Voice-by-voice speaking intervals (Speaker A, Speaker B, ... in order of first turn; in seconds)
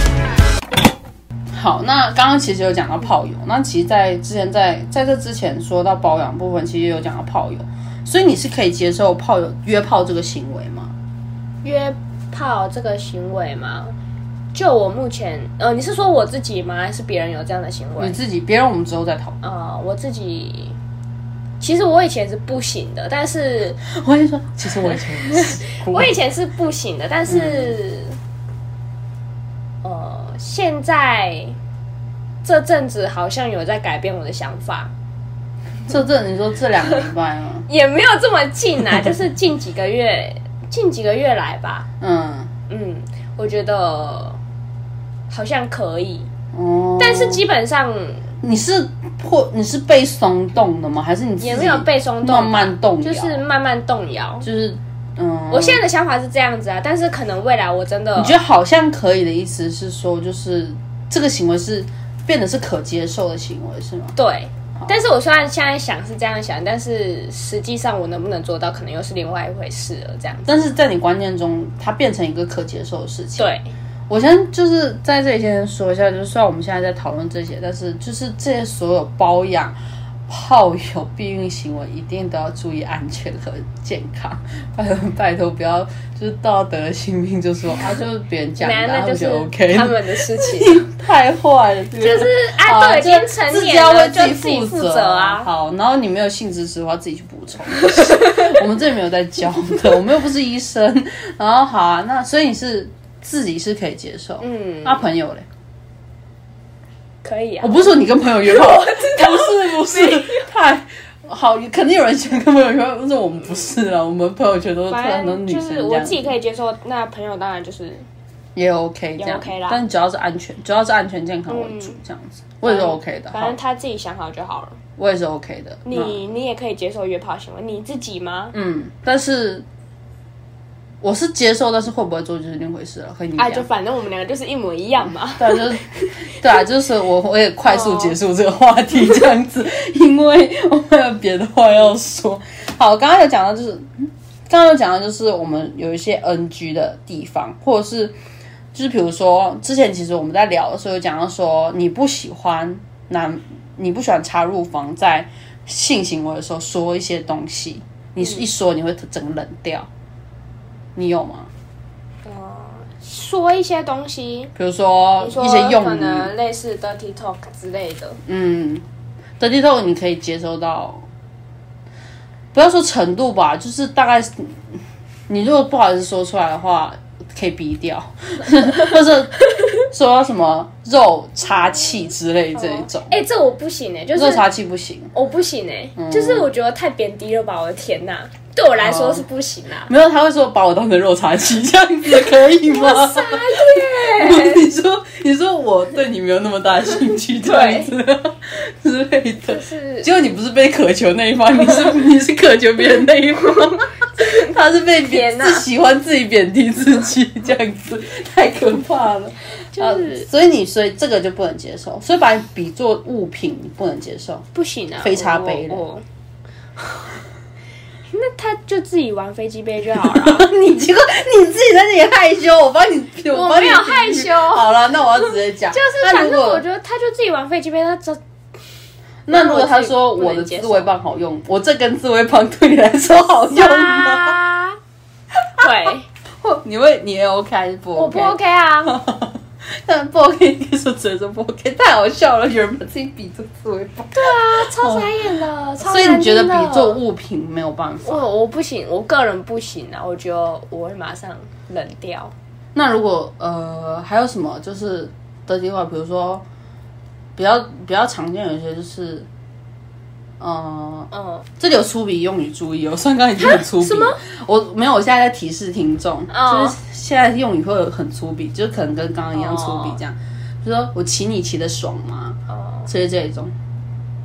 Speaker A: 1.5-10.9, 18.0-19.4, 23.8-26.2, 27.3-27.8, 35.9-37.7, 42.0-42.5, 46.5-47.4, 48.4-53.4, 54.4-55.8, 58.2-64.1, 70.5-73.5, 74.1-79.8, 80.3-105.5, 107.6-116.3, 118.5-123.6, 125.0-126.2, 128.5-129.7, 131.0-133.7, 135.3-148.2, 148.7-159.9, 161.0-161.5, 164.6-166.3, 168.2-168.8, 169.4-171.0, 172.5-174.6, 175.3-183.2, 184.2-185.1, 186.0-186.5, 188.8-189.2, 189.9-214.5, 215.0-215.8, 220.0-226.6, 229.3-234.4, 236.4-245.1, 245.8-248.2, 252.8-256.4, 257.4-259.3, 260.4-261.1, 261.6-273.5
Speaker B: 11.6-13.9, 14.5-18.2, 19.4-20.8, 21.6-23.8, 25.2-28.2, 29.8-31.6, 32.4-34.9, 37.7-41.9, 42.7-44.4, 45.3-46.3, 47.0-48.2, 51.4-54.5, 55.5-58.4, 64.2-70.7, 73.4-73.7, 88.6-90.8, 92.0-95.5, 97.8-98.5, 104.4-105.0, 107.2-110.5, 114.9-118.1, 119.2-119.8, 121.5-122.0, 122.7-124.8, 125.8-128.5, 133.4-136.2, 137.7-138.2, 162.2-164.5, 165.2-168.2, 178.6-179.0, 182.6-184.4, 185.1-189.9, 192.7-194.6, 197.4-197.9, 199.5-200.1, 204.2-205.7, 209.7-210.3, 214.5-216.0, 218.1-220.5, 223.3-228.2, 229.3-230.9, 233.5-234.8, 235.6-236.1, 237.9-239.0, 244.1-247.0, 248.1-252.3, 261.1-261.4, 263.4-264.2, 266.3-266.8, 269.3-270.0, 272.5-272.9